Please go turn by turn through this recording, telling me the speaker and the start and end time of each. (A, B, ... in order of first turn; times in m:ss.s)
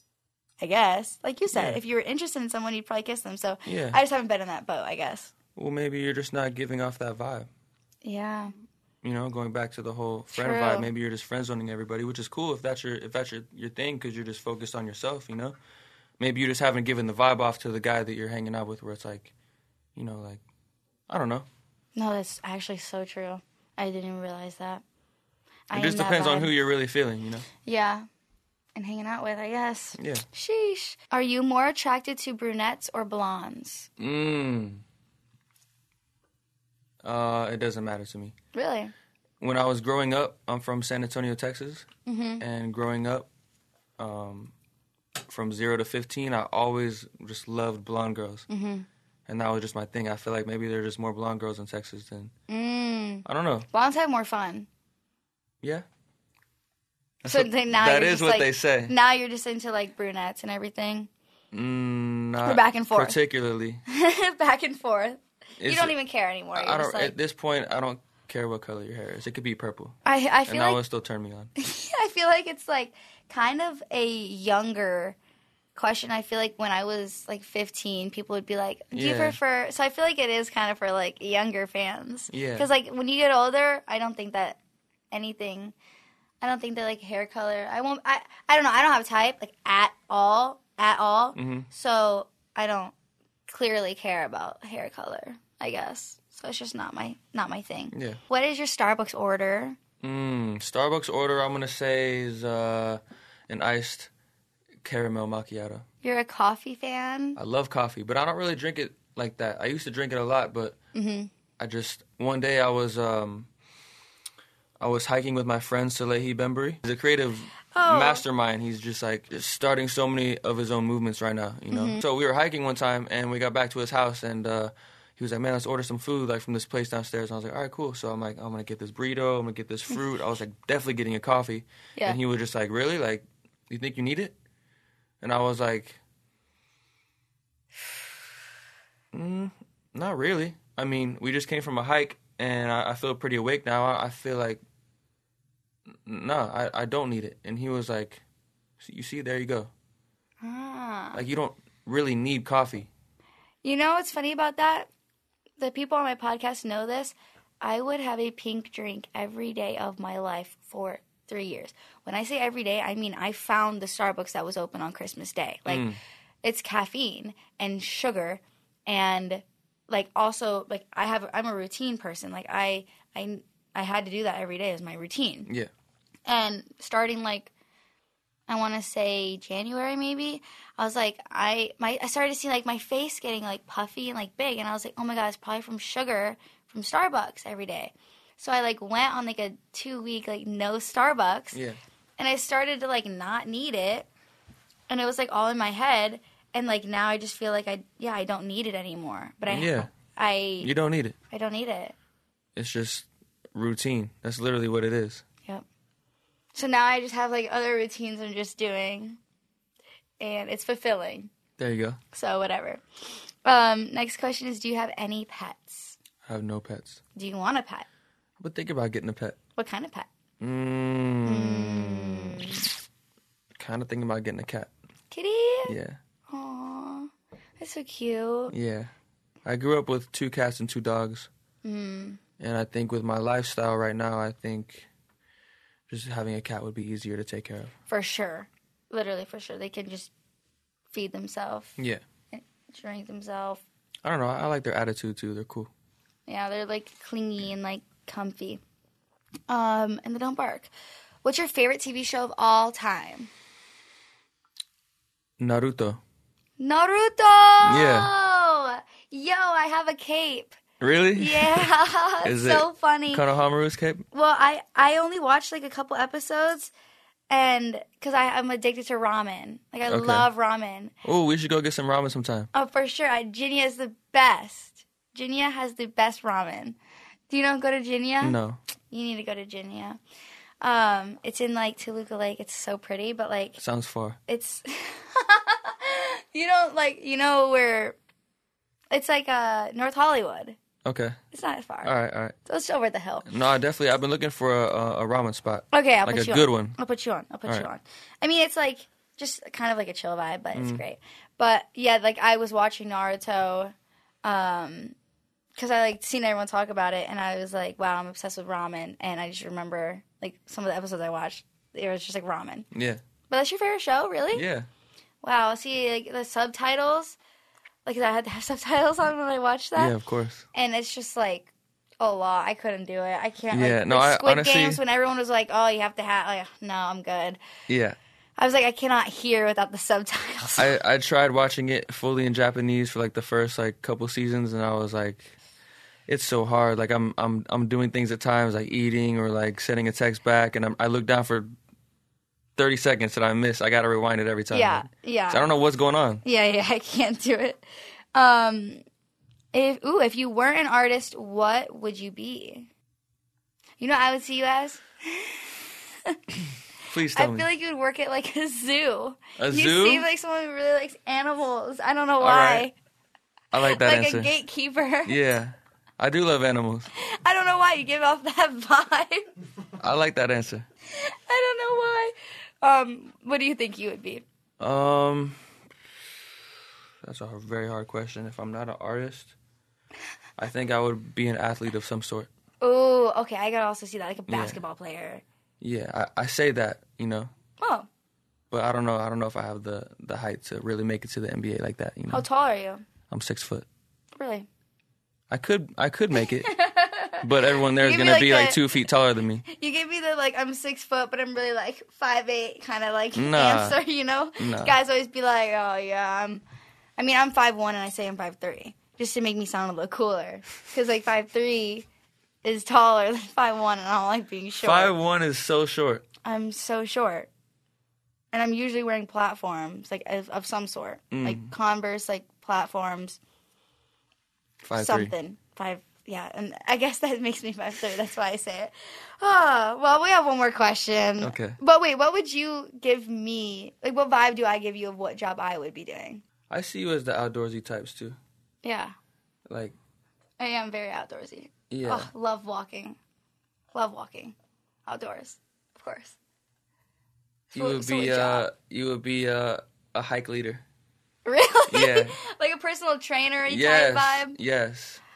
0:00.6-0:05.3 A
0:01.5-0:01.8 B
0:03.7-0:04.0 B
0:05.6-0:07.5 B
0:08.0-0:08.5 A
0:09.0-0:15.6 B
0:10.3-0:10.9 A
0:16.2-0:19.3 B
0:20.0-0:20.4 B
0:21.1-0:21.5 B
0:22.0-0:24.8 A
0:25.7-0:26.5 A
0:25.7-0:27.5 B
0:27.6-0:28.0 A
0:28.8-0:33.9 A
0:30.0-0:30.2 B
0:34.0-0:34.8 B
0:37.0-0:38.3 B
0:38.5-0:38.9 A
0:39.4-0:41.9 B
0:42.1-0:42.4 A
0:42.4-0:43.3 B
0:44.0-0:44.5 B
0:45.2-0:48.5 B
0:48.5-0:48.9 A
0:49.3-0:52.3 B
0:52.5-0:54.7 A
0:53.2-0:53.7 B
0:57.2-0:59.0 B
0:57.2-1:01.1 A
1:01.5-1:03.8 B
1:02.4-1:03.2 A
1:03.9-1:07.2 A
1:05.6-1:06.0 B
1:06.6-1:10.0 B
1:10.0-1:10.8 A
1:10.5-1:11.5 B
1:11.6-1:15.2 A
1:15.8-1:24.6 A
1:18.9-1:19.4 B
1:22.3-1:22.7 B
1:25.1-1:25.8 A
1:26.4-1:32.9 A
1:31.4-1:31.7 B
1:33.5-1:39.8 A
1:37.9-1:38.2 B
1:40.0-1:44.1 B
1:44.8-1:45.8 B
1:46.0-1:47.4 A
1:47.4-1:50.8 B
1:50.9-1:51.3 A
1:51.6-1:53.5 B
1:54.8-2:14.3 B
1:57.7-1:58.2 A
2:01.7-2:02.0 A
2:15.2-2:16.0 B
2:19.1-2:24.6 B
2:26.0-2:28.2 B
2:28.8-2:29.7 B
2:30.4-2:31.2 A
2:31.1-2:32.9 B
2:33.6-2:34.9 A
2:35.6-2:45.9 A
2:45.7-2:46.0 B
2:46.4-2:55.5 A
2:56.3-2:57.5 A
2:58.5-3:11.6 A
3:11.5-3:11.8 B
3:12.2-3:14.1 A
3:14.9-3:20.7 A
3:19.5-3:19.9 B
3:20.6-3:21.2 B
3:21.3-3:22.0 A
3:22.6-3:25.2 B
3:26.6-3:29.2 A
3:30.2-3:31.3 A
3:31.6-3:32.0 B
3:32.1-3:32.8 A
3:33.4-3:36.0 A
3:36.2-3:37.0 B
3:37.2-3:37.9 A
3:38.4-3:39.4 B
3:39.6-3:40.1 A
3:40.4-3:42.6 B
3:41.2-3:42.7 A
3:43.6-3:44.7 B
3:45.1-3:45.8 A
3:45.6-3:46.0 B
3:46.3-3:48.5 A
3:48.5-3:48.9 B
3:49.4-3:51.3 B
3:51.6-3:52.2 A
3:52.4-3:54.9 B
3:55.9-3:57.7 B
3:57.9-4:00.1 A
4:00.9-4:01.8 A
4:01.8-4:02.0 B
4:02.3-4:03.6 A
4:04.0-4:05.7 B
4:06.3-4:08.6 A
4:09.5-4:10.7 A
4:11.2-4:13.3 A
4:15.4-4:16.0 B
4:16.6-4:20.6 A
4:17.6-4:18.1 B
4:20.8-4:24.0 B
4:21.2-4:23.2 A
4:24.1-4:26.7 A
4:27.3-4:30.9 A
4:29.9-4:30.3 B
4:31.0-4:32.5 B
4:32.5-4:36.8 A
4:37.3-4:38.4 A
4:38.2-4:38.6 B
4:38.9-4:40.0 A
4:40.6-4:43.6 A
4:43.6-4:44.2 B
4:44.3-4:48.0 A
4:48.9-4:50.6 A
4:50.8-4:51.2 B
4:51.3-4:51.9 A
4:51.8-4:52.4 B
4:52.4-4:53.2 A
4:53.2-4:56.8 B
4:55.7-5:05.0 A
5:00.5-5:00.8 B
5:05.6-5:12.7 A
5:12.7-5:13.0 B
5:13.3-5:14.5 A
5:14.3-5:14.7 B
5:15.2-5:17.2 A
5:17.8-5:20.0 A
5:19.8-5:20.5 B
5:20.5-5:27.4 A
5:23.5-5:24.8 B
5:27.7-5:28.0 B
5:28.4-5:30.8 A
5:30.6-5:35.3 B
5:36.1-5:41.5 B
5:42.6-5:46.2 B
5:44.5-5:45.5 A
5:46.2-5:48.8 A
5:49.5-5:52.7 A
5:53.8-5:55.5 A
5:56.9-5:57.5 B
5:57.2-6:02.7 A
5:59.4-6:00.1 B
6:02.2-6:02.7 B
6:03.5-6:04.3 B
6:03.7-6:05.2 A
6:05.1-6:06.9 B
6:07.0-6:09.2 A
6:09.8-6:10.7 B
6:11.0-6:14.2 A
6:14.6-6:15.4 B
6:17.0-6:19.3 B
6:20.4-6:22.3 B
6:22.6-6:25.2 A
6:24.3-6:24.6 B
6:25.6-6:27.3 B
6:27.6-6:27.9 A
6:28.5-6:32.2 B
6:32.1-6:32.8 A
6:33.1-6:33.7 B
6:34.2-6:34.5 A
6:35.3-6:36.6 B
6:36.4-6:38.7 A
6:37.2-6:39.4 B
6:39.5-6:46.4 A
6:43.2-6:43.8 B
6:44.4-6:44.8 B
6:47.0-6:51.9 A
6:52.4-6:55.0 A
6:54.6-6:56.0 B
6:56.2-6:57.3 A
6:58.3-7:03.2 A
7:01.1-7:01.5 B
7:04.6-7:05.1 B
7:04.8-7:16.2 A
7:11.2-7:11.6 B
7:16.5-7:18.2 B
7:18.6-7:18.9 A
7:19.5-7:19.8 B
7:20.4-7:23.0 A
7:21.7-7:22.1 B
7:23.7-7:24.4 A
7:24.9-7:26.2 A
7:27.5-7:28.5 A
7:27.5-7:30.6 B
7:31.2-7:34.4 A
7:31.7-7:32.2 B
7:33.5-7:35.0 B